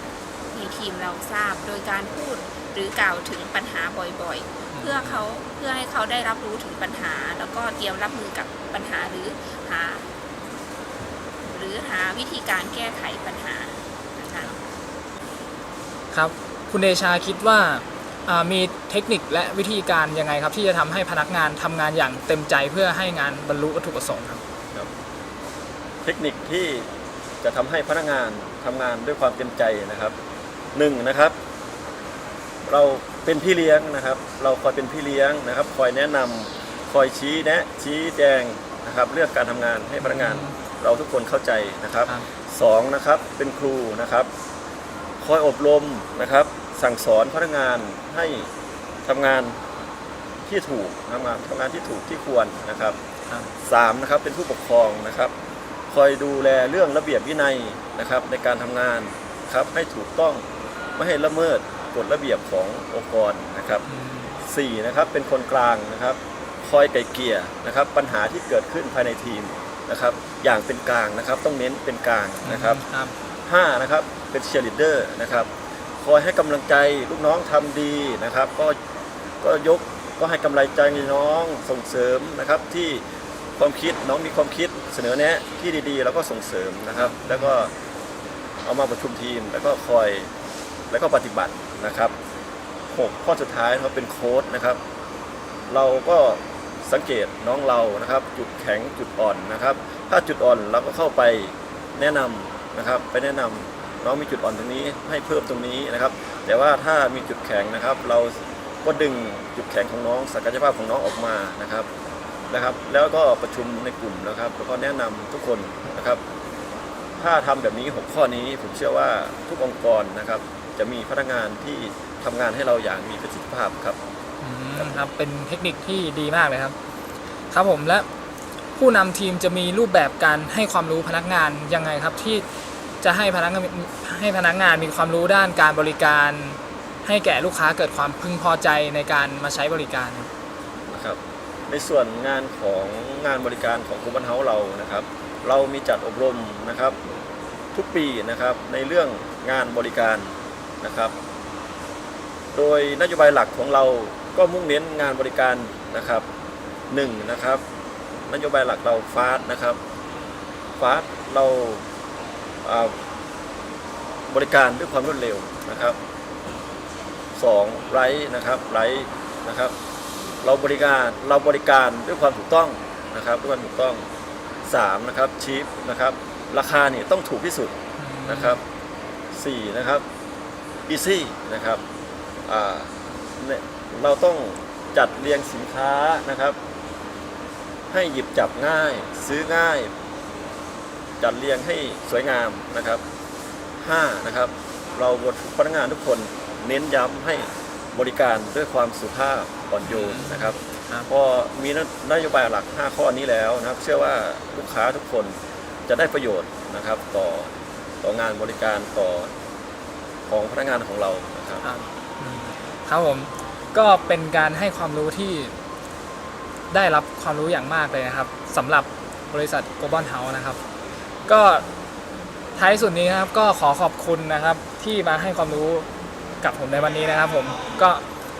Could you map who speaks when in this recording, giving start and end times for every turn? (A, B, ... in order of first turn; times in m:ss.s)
0:00.5-0:10.1 A
0:04.7-0:05.2 B
0:11.5-0:14.6 A
0:16.1-0:24.4 B
0:26.0-0:26.9 C
0:27.4-0:30.1 C
0:30.7-0:31.4 C
0:32.6-0:44.3 C
0:40.0-0:40.5 B
0:45.2-0:48.5 C
0:49.0-0:49.6 C
0:50.4-0:53.0 C
0:53.6-0:55.3 C
0:55.9-1:00.4 C
1:01.0-1:03.8 C
1:03.9-1:04.4 B
1:04.4-1:12.8 C
1:12.4-1:13.1 B
1:13.5-1:15.5 C
1:16.0-1:18.8 C
1:19.4-1:23.0 C
1:23.6-1:27.7 C
1:27.0-1:27.5 B
1:28.6-1:30.3 C
1:30.9-1:32.1 C
1:32.9-1:34.8 C
1:35.7-1:51.9 C
1:52.5-1:56.2 C
1:57.2-2:04.0 C
2:04.4-2:06.7 B
2:07.5-2:08.1 B
2:08.8-2:12.4 B
2:13.0-2:20.3 B
2:20.9-2:27.0 C
2:27.7-2:31.1 C
2:32.5-2:36.2 C
2:36.9-2:37.6 C
2:38.3-2:39.8 C
2:40.8-2:41.8 C
2:42.6-2:42.9 C
2:44.3-2:46.0 C
2:47.3-2:49.7 C
2:50.4-2:54.0 C
2:54.6-2:58.6 C
2:58.0-2:58.6 B
2:59.3-3:00.0 C
3:00.9-3:01.8 C
3:02.5-3:06.6 C
3:07.9-3:09.9 C
3:11.2-3:13.0 C
3:13.8-3:25.4 C
3:19.8-3:21.1 B
3:25.9-3:27.5 C
3:28.0-3:29.3 C
3:30.3-3:31.6 C
3:31.6-3:35.5 B
3:36.7-3:40.6 B
3:41.2-3:41.6 B
3:42.6-3:45.9 B
3:46.4-3:48.0 B